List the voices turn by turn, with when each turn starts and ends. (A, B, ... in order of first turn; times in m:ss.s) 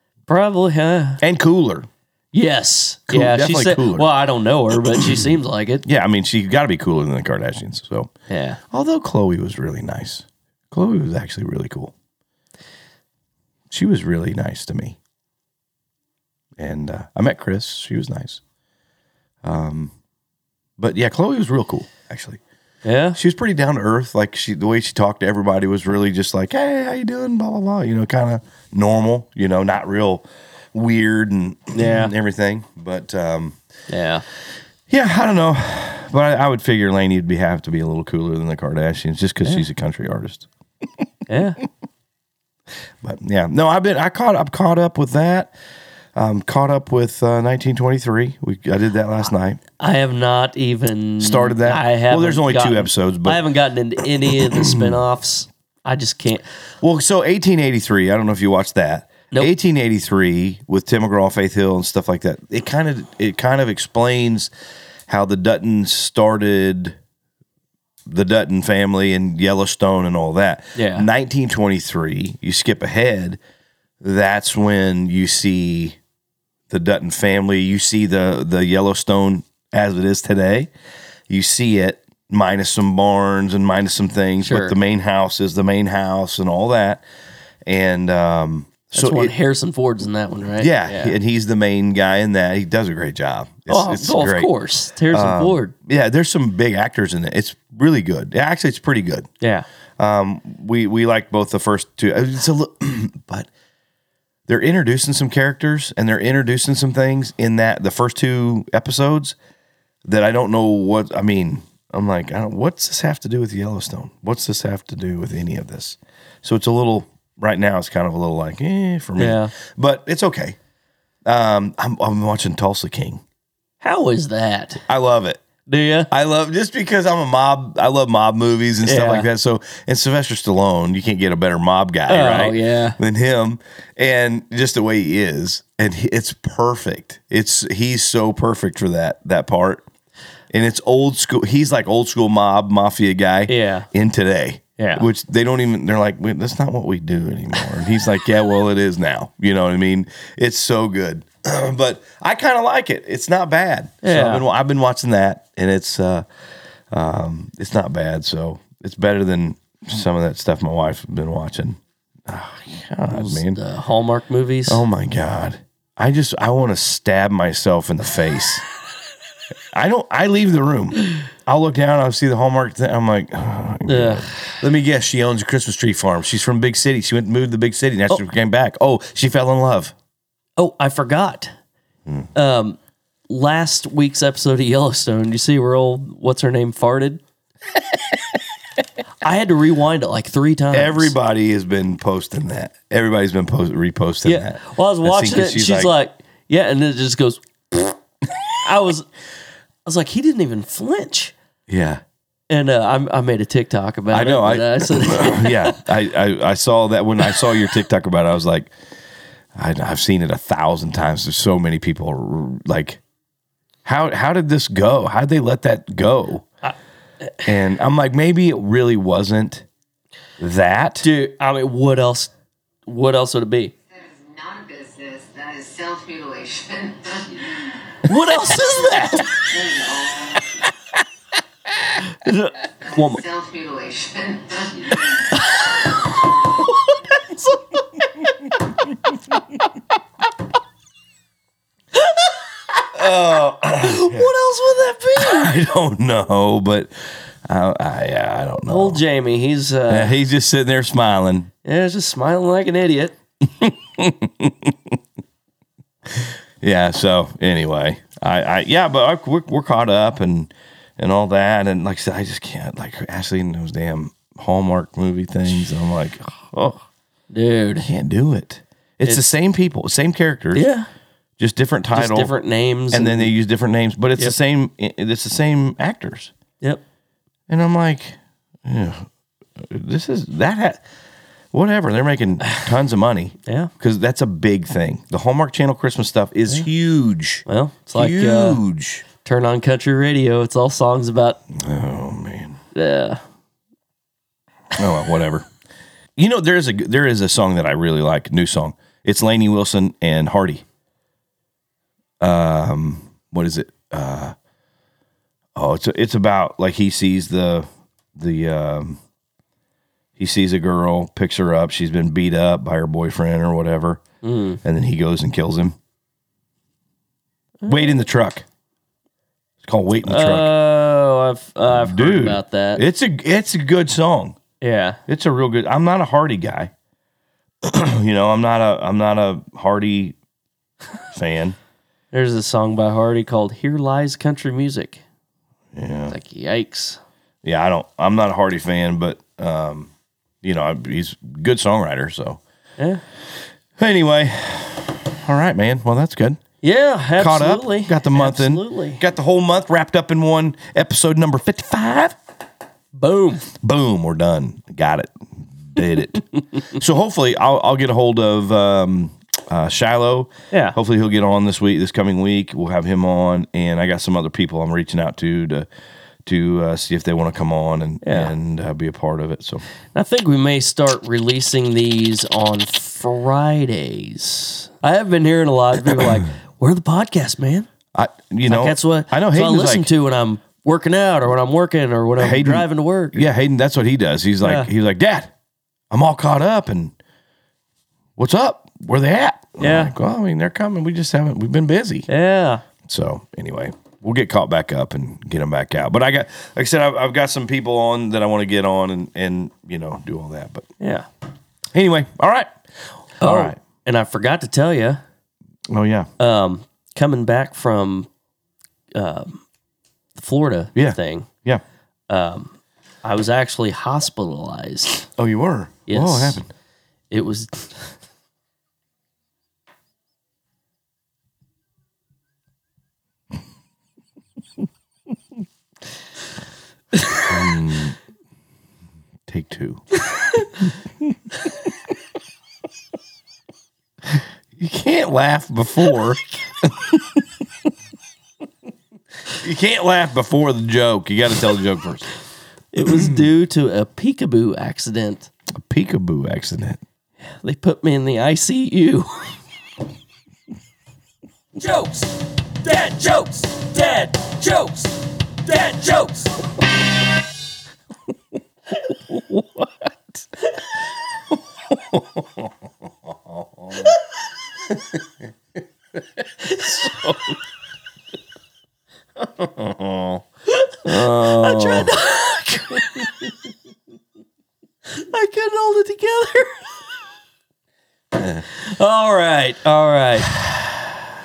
0:00.3-0:01.2 A
0:01.2-0:01.9 B
0:02.3-0:05.8 A
0:03.1-0:04.1 B
0:05.8-0:08.1 B
0:08.3-0:08.6 A
0:08.7-0:11.9 B
0:13.7-0:15.0 B
0:16.6-0:18.4 B
0:19.4-0:19.9 B
0:20.8-0:22.4 B
0:22.8-0:23.2 A
0:23.2-0:33.6 B
0:31.7-0:32.1 A
0:33.9-0:34.2 A
0:34.9-0:40.5 B
0:41.3-0:41.6 A
0:43.0-0:45.5 B
0:46.1-0:49.6 B
0:49.8-0:56.4 A
0:51.2-0:53.4 B
0:54.3-0:55.0 B
0:56.8-1:04.5 B
1:05.1-1:07.0 B
1:08.1-1:13.4 B
1:10.8-1:11.1 A
1:14.0-1:16.0 B
1:16.7-1:20.7 B
1:21.3-1:27.0 B
1:24.4-1:24.7 A
1:27.7-1:29.3 B
1:28.9-1:31.2 A
1:30.6-1:34.5 B
1:33.7-1:35.7 A
1:35.1-1:39.3 B
1:39.4-1:39.6 A
1:40.0-1:43.5 B
1:44.5-1:49.4 B
1:50.0-2:00.6 B
1:59.2-1:59.5 A
2:01.3-2:03.2 B
2:03.8-2:04.8 A
2:04.9-2:05.4 B
2:05.7-2:06.1 A
2:06.1-2:19.9 B
2:08.8-2:09.3 A
2:12.1-2:13.0 A
2:20.5-2:36.2 B
2:23.5-2:23.9 A
2:24.8-2:25.0 A
2:34.0-2:34.4 A
2:36.9-2:43.6 B
2:43.1-2:44.8 A
2:44.7-2:48.6 B
2:49.7-2:59.9 B
2:53.8-2:54.5 A
3:00.6-3:01.5 A
3:02.3-3:02.8 A
3:03.3-3:07.2 A
3:09.2-3:11.1 A
3:10.7-3:15.9 B
3:14.2-3:18.0 A
3:18.6-3:19.1 A
3:19.8-3:21.3 A
3:21.7-3:22.0 B
3:22.5-3:25.8 A
3:24.1-3:28.7 B
3:29.5-3:33.0 B
3:33.8-3:36.4 B
3:37.4-3:39.6 B
3:40.4-3:41.0 B
3:41.0-3:42.3 A
3:42.8-3:43.7 A
3:43.9-3:47.9 C
3:48.0-3:49.3 A
3:49.3-3:50.4 C
3:52.0-3:53.2 A
3:52.8-3:55.4 C
3:55.3-3:55.9 A
3:56.5-3:57.6 A
4:02.0-4:02.3 A
4:02.9-4:04.3 B
4:03.6-4:05.5 A
4:05.2-4:06.9 B
4:07.4-4:09.0 B
4:08.6-4:10.1 A
4:09.9-4:11.5 B
4:11.6-4:13.2 A
4:13.4-4:15.0 B
4:16.1-4:26.8 B
4:27.3-4:27.9 A
4:27.8-4:30.7 B
4:30.5-4:30.9 A
4:31.4-4:32.3 B
4:31.9-4:33.3 A
4:32.9-4:36.3 B
4:37.5-4:39.0 B
4:39.6-4:40.8 B
4:41.5-4:49.0 B
4:43.4-4:43.7 A
4:47.5-4:48.6 A
4:49.2-4:51.4 A
4:51.5-4:52.6 B
4:52.7-4:53.2 A
4:54.8-4:55.5 B
4:56.2-5:00.6 B
5:02.2-5:04.3 B
5:05.5-5:09.0 B
5:10.2-5:14.0 B
5:14.2-5:14.6 A
5:14.6-5:15.8 B
5:17.6-5:17.9 A
5:17.6-5:18.4 B
5:19.6-5:20.5 B
5:20.0-5:22.8 A
5:21.7-5:24.4 B
5:24.6-5:25.0 A
5:25.1-5:26.7 B
5:27.6-5:30.2 B
5:31.1-5:31.6 B
5:32.1-5:35.0 A
5:35.7-5:36.2 B
5:36.1-5:37.0 A
5:37.4-5:39.9 B
5:40.4-5:42.4 B
5:43.8-5:46.4 B
5:46.6-5:49.0 A
5:47.2-5:52.2 B
5:52.9-5:53.5 A
5:53.5-6:05.7 B
6:00.5-6:00.8 A
6:06.2-6:09.6 B
6:08.0-6:08.3 A
6:09.9-6:17.7 A
6:17.9-6:19.9 B
6:18.5-6:23.2 A
6:22.2-6:25.3 B
6:24.4-6:24.7 A
6:25.9-6:26.9 B
6:28.2-6:32.1 B
6:29.6-6:29.9 A
6:32.1-6:32.6 A
6:32.8-6:40.7 B
6:40.8-6:41.1 A
6:41.7-6:42.5 B
6:43.2-6:43.6 B
6:43.2-6:45.0 A
6:45.7-6:46.1 B
6:46.2-6:48.1 A
6:48.9-6:49.4 A
6:50.2-6:51.3 A
6:50.7-6:51.6 B
6:52.1-6:55.1 A
6:55.2-6:56.5 B
6:55.9-6:56.4 A
6:57.1-6:57.9 A
7:07.2-7:08.0 B
7:09.3-7:09.8 B
7:14.1-7:17.2 B
7:19.3-7:22.1 B
7:22.7-7:25.3 A
7:22.8-7:23.2 B
7:25.5-7:26.8 B
7:27.2-7:29.4 A
7:31.6-7:36.4 A
7:39.1-7:39.9 B
7:41.7-7:42.5 B
7:43.1-7:44.0 B
7:44.7-7:45.0 B
7:46.4-7:47.1 B
7:46.7-7:47.3 A
7:49.2-7:50.2 B
7:50.5-7:53.3 A
7:50.8-7:51.9 B
7:54.9-7:56.8 A
7:58.4-8:00.8 A